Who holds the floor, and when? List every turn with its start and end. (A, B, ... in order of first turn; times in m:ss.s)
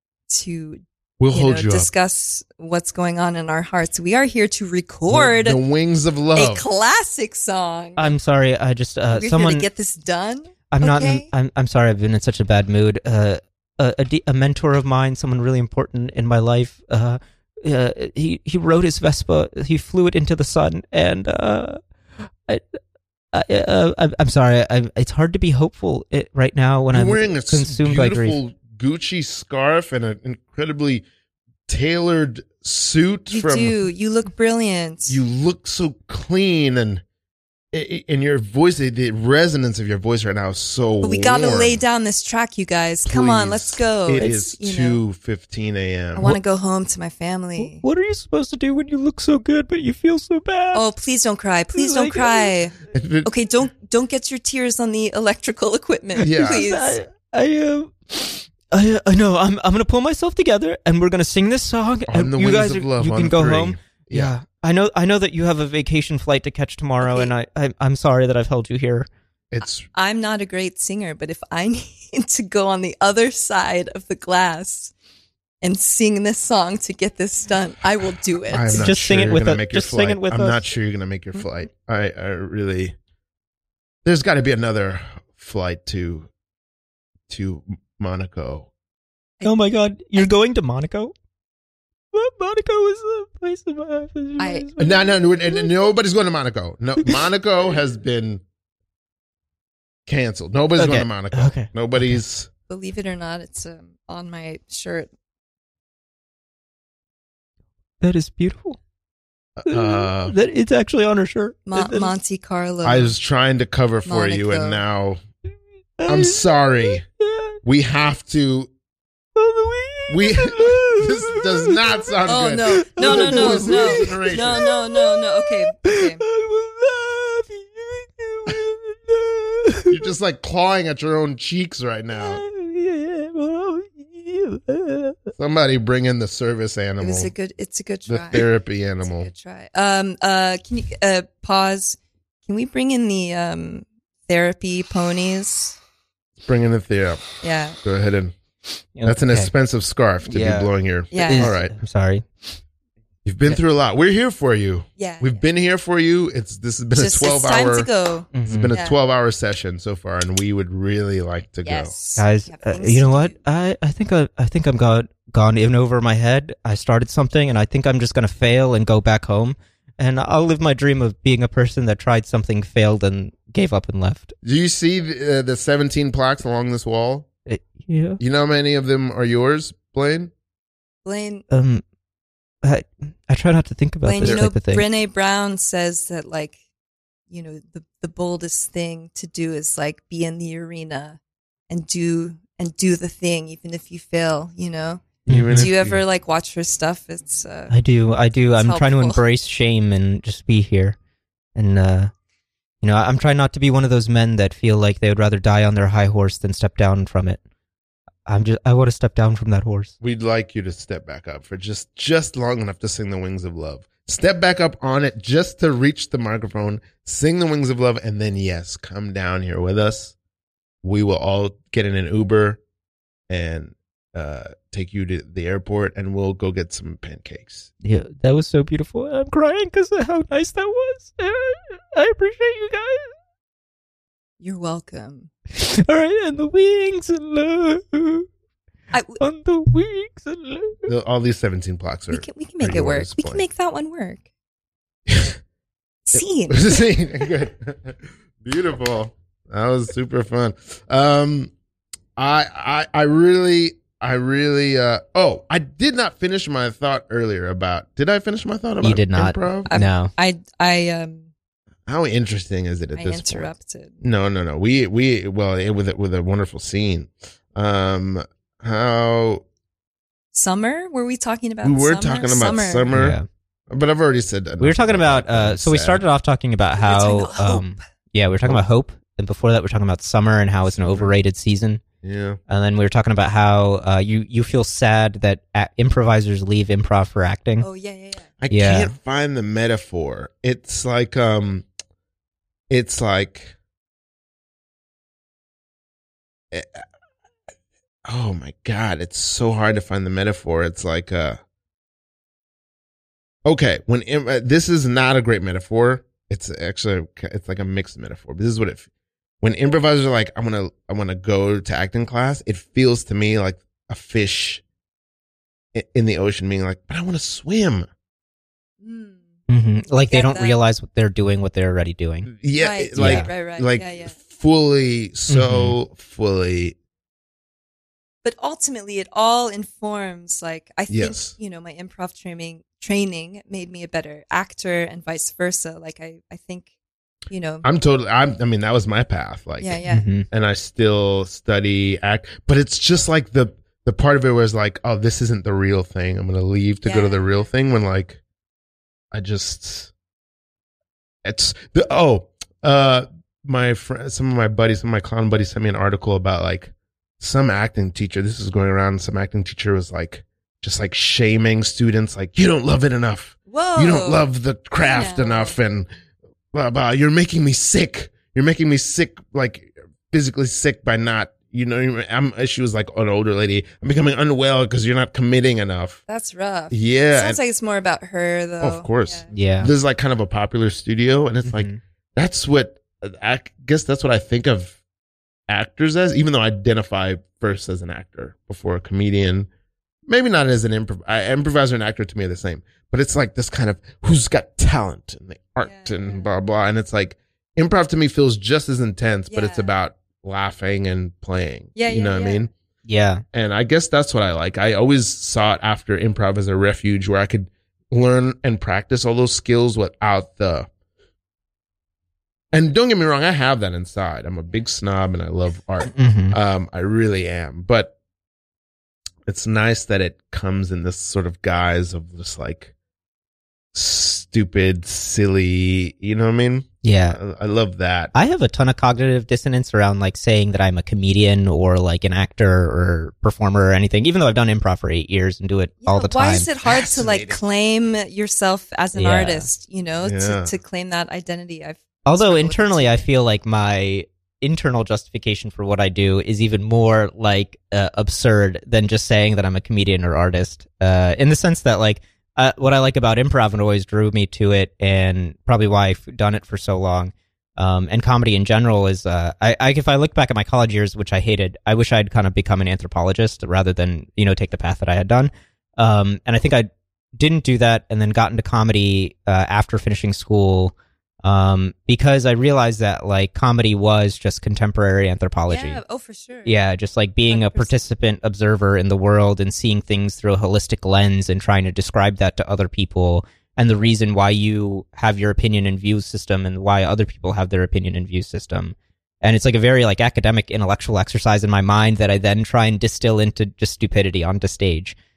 0:00.3-0:05.6 A
0:01.2-0:01.9 B
0:05.1-0:06.6 B
0:06.3-0:08.2 A
0:08.0-0:09.6 C
0:09.1-0:11.3 A
0:10.7-0:21.8 C
0:22.4-0:22.8 C
0:23.3-0:28.4 C
0:26.9-0:31.0 B
0:31.7-0:33.8 B
0:33.3-0:35.2 A
0:35.1-0:37.0 B
0:37.7-0:41.8 B
0:41.0-0:45.0 A
0:43.0-0:46.2 B
0:46.2-0:47.8 A
0:47.6-0:50.9 C
0:50.7-0:57.0 A
0:51.7-0:52.5 C
0:52.9-0:53.3 B
0:56.2-1:09.1 C
0:56.2-0:56.6 B
1:02.1-1:04.3 B
1:07.0-1:07.3 A
1:09.5-1:09.8 B
1:09.9-1:14.9 A
1:15.6-1:18.9 A
1:18.5-1:23.0 B
1:18.7-1:20.7 C
1:24.0-1:26.3 B
1:27.3-1:28.7 B
1:29.4-1:31.1 C
1:32.1-1:35.7 C
1:34.4-1:34.7 A
1:34.8-1:38.4 B
1:40.0-1:42.5 B
1:40.8-1:42.2 C
1:42.7-1:45.1 A
1:48.0-1:48.8 C
1:49.6-1:50.3 B
1:49.7-1:52.1 C
1:51.7-1:53.1 A
1:52.8-1:55.2 B
1:54.0-1:54.8 A
1:56.0-1:57.6 C
1:56.0-1:57.0 B
1:57.6-1:58.7 B
1:59.4-2:01.8 C
2:00.1-2:04.6 B
2:02.3-2:06.2 A
2:02.7-2:10.0 C
2:09.9-2:12.4 B
2:12.1-2:15.3 C
2:15.4-2:17.3 B
2:17.0-2:25.8 A
2:18.1-2:19.3 B
2:26.4-2:27.3 B
2:27.4-2:27.8 A
2:27.8-2:28.3 B
2:28.9-2:29.5 C
2:29.0-2:31.7 B
2:30.2-2:32.2 C
2:31.1-2:31.5 A
2:33.2-2:37.9 B
2:35.0-2:35.4 A
2:36.9-2:39.0 A
2:38.3-2:38.7 C
2:38.4-2:41.9 B
2:41.6-2:43.4 A
2:42.2-2:54.3 C
2:54.4-2:57.2 B
2:57.4-2:58.2 C
2:58.2-3:00.3 B
3:01.0-3:01.4 A
3:01.5-3:01.8 C
3:02.6-3:04.8 C
3:04.0-3:06.6 A
3:07.3-3:11.2 A
3:11.7-3:17.7 A
3:15.3-3:15.7 C
3:15.3-3:16.0 B
3:17.7-3:21.0 C
3:18.5-3:19.2 A
3:21.5-3:22.1 C
3:22.8-3:27.4 C
3:28.2-3:29.9 C
3:30.0-3:40.1 B
3:40.8-3:42.6 B
3:43.3-3:47.7 B
3:47.8-3:53.2 C
3:54.4-3:55.3 A
3:55.5-3:58.3 C
3:58.9-3:59.2 A
3:59.2-4:00.9 C
4:00.9-4:03.4 B
4:02.1-4:04.2 A
4:05.1-4:05.4 B
4:06.1-4:06.9 A
4:06.5-4:11.5 B
4:12.2-4:19.7 B
4:18.8-4:20.1 C
4:19.7-4:21.3 A
4:21.9-4:29.4 B
4:22.9-4:24.0 A
4:30.3-4:32.9 A
4:31.6-4:33.2 B
4:32.9-4:33.2 C
4:33.7-4:36.0 B
4:34.6-4:41.8 C
4:36.7-4:37.7 A
4:40.6-4:41.1 B
4:42.0-4:42.4 B
4:42.5-4:47.7 C
4:47.6-4:48.3 A
4:48.4-4:51.6 B
4:48.5-4:48.9 C
4:52.7-4:53.5 B
4:56.5-4:56.8 B
4:58.0-5:01.4 B
5:03.4-5:08.9 B
5:09.4-5:14.6 B
5:15.7-5:17.9 B
5:18.8-5:19.3 A
5:19.5-5:22.3 C
5:20.1-5:20.6 A
5:22.3-5:26.7 B
5:22.6-5:24.2 A
5:23.0-5:23.3 C
5:25.3-5:25.8 C
5:28.2-5:36.7 A
5:30.9-5:31.3 B
5:37.3-5:37.6 A
5:37.6-5:48.2 B
5:39.6-5:40.1 A
5:39.9-5:40.2 C
5:46.8-5:47.4 A
5:49.1-5:49.9 B
5:51.2-6:05.9 B
6:03.5-6:04.2 A
6:04.8-6:05.6 A
6:06.5-6:16.0 B
6:16.1-6:19.3 A
6:16.7-6:17.4 B
6:18.6-6:24.8 B
6:19.3-6:19.7 C
6:21.4-6:21.8 C
6:25.5-6:29.5 B
6:30.1-6:42.5 B
6:35.6-6:36.3 A
6:39.3-6:39.7 A
6:41.8-6:42.5 A
6:42.8-6:43.2 C
6:43.3-6:50.7 B
6:52.5-6:57.9 B
6:55.9-6:56.4 C
6:59.2-7:02.7 B
7:03.7-7:08.1 B
7:06.8-7:07.2 C
7:08.1-7:16.5 C
7:15.8-7:23.1 A
7:16.6-7:17.4 B
7:19.0-7:19.5 C
7:20.0-7:20.5 B
7:22.0-7:55.8 C
7:55.5-7:56.5 A
7:56.4-8:15.0 C
7:57.3-7:57.8 A